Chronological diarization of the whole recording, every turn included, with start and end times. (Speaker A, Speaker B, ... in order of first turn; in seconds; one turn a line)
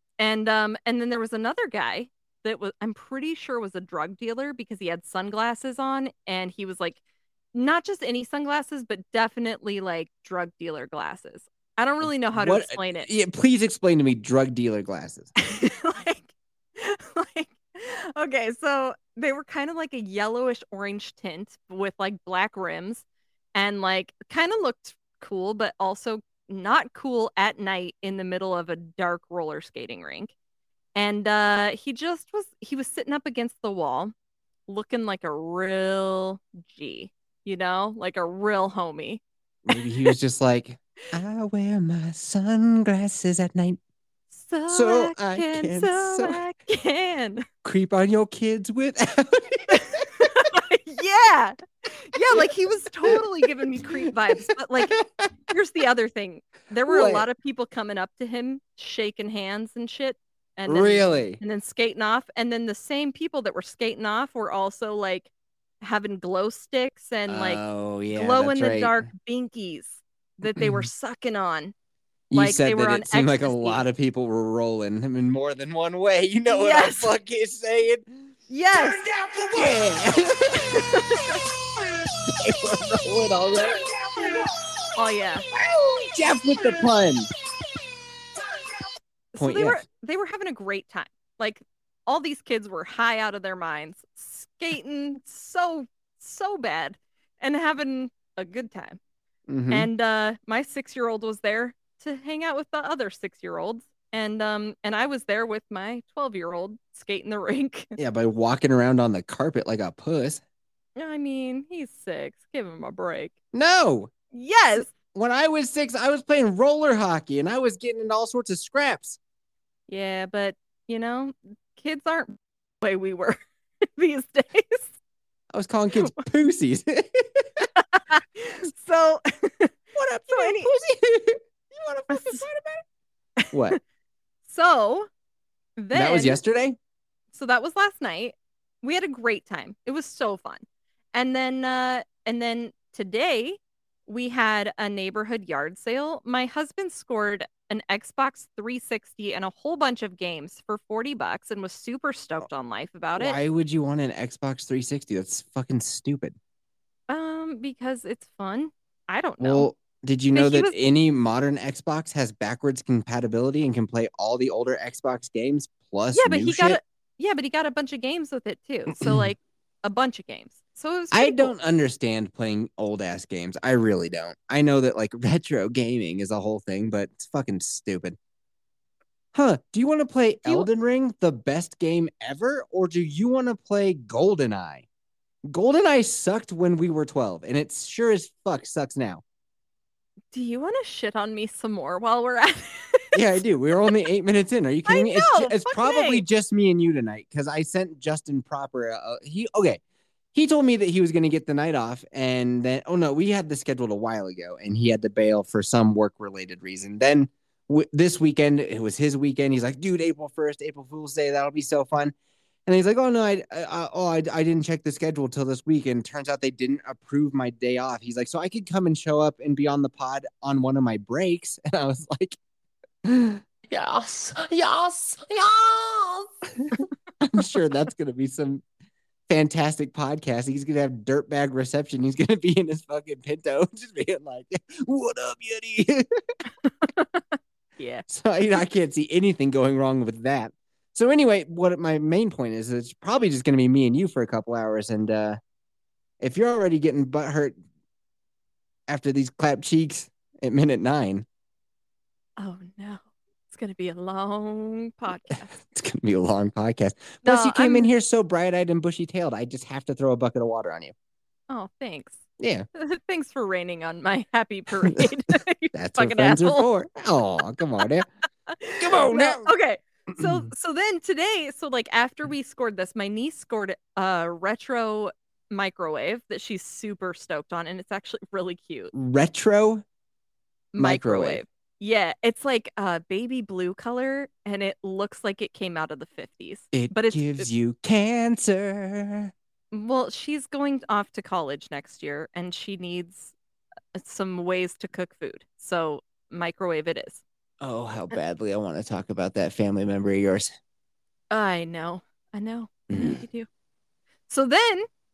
Speaker A: 0.2-7.0
Speaker A: 7.5-13.1
Speaker B: 12.3-15.3
Speaker A: 15.4-23.0
Speaker A: 23.6-30.3
Speaker A: 30.9-34.1
Speaker A: 34.7-39.2
Speaker B: 39.7-43.8
Speaker A: 39.7-40.1
Speaker A: 44.3-47.5
Speaker B: 44.7-46.4
Speaker B: 47.6-50.3
Speaker A: 49.7-55.0
Speaker B: 54.3-55.3
Speaker A: 55.5-65.3
Speaker B: 56.9-57.3
Speaker B: 60.7-61.4
Speaker A: 65.8-71.7
Speaker B: 67.3-69.1
Speaker B: 70.6-70.9
Speaker B: 72.3-78.1
Speaker A: 72.3-73.8
Speaker A: 76.5-77.1
Speaker A: 78.5-79.1
Speaker B: 79.0-81.1
Speaker A: 80.6-81.4
Speaker B: 82.2-84.5
Speaker A: 85.0-85.5
Speaker B: 85.5-87.3
Speaker A: 89.3-99.0
Speaker B: 89.4-89.8
Speaker B: 99.5-99.9
Speaker A: 99.7-108.0
Speaker B: 108.0-110.4
Speaker A: 111.0-113.3
Speaker B: 113.5-114.1
Speaker A: 114.3-114.9
Speaker B: 114.9-119.2
Speaker A: 119.9-123.4
Speaker A: 124.0-124.9
Speaker B: 125.5-127.7
Speaker A: 127.8-129.8
Speaker B: 129.9-132.8
Speaker A: 130.3-130.7
Speaker A: 132.1-132.4
Speaker A: 133.4-133.8
Speaker B: 133.5-133.8
Speaker A: 134.5-135.1
Speaker A: 135.8-136.4
Speaker B: 135.9-136.8
Speaker A: 137.3-140.6
Speaker A: 141.1-153.4
Speaker B: 153.2-156.4
Speaker A: 157.1-159.7
Speaker B: 159.4-166.8
Speaker A: 160.3-160.8
Speaker A: 166.1-171.5
Speaker B: 171.1-178.2
Speaker B: 179.3-184.8
Speaker B: 185.5-189.2
Speaker A: 190.3-193.2
Speaker B: 193.1-199.8
Speaker A: 194.9-196.2
Speaker B: 200.3-212.1
Speaker B: 212.7-222.4
Speaker B: 223.0-223.4
Speaker C: 223.7-226.3
Speaker B: 226.7-228.6
Speaker B: 229.3-236.1
Speaker A: 236.6-238.1
Speaker B: 238.1-245.4
Speaker B: 246.2-247.6
Speaker B: 248.9-251.3
Speaker A: 252.4-255.5
Speaker B: 255.3-260.9
Speaker A: 257.2-257.9
Speaker A: 261.5-262.2
Speaker B: 262.4-262.7
Speaker A: 262.8-266.7
Speaker B: 265.7-268.1
Speaker A: 268.5-278.9
Speaker B: 268.8-269.5
Speaker B: 270.1-270.5
Speaker B: 278.9-279.8
Speaker A: 280.7-287.5
Speaker B: 280.8-281.4
Speaker B: 286.7-289.3
Speaker A: 289.7-293.3
Speaker A: 293.9-297.2
Speaker B: 297.6-300.5
Speaker A: 301.3-303.5
Speaker B: 302.9-303.2
Speaker A: 304.3-304.9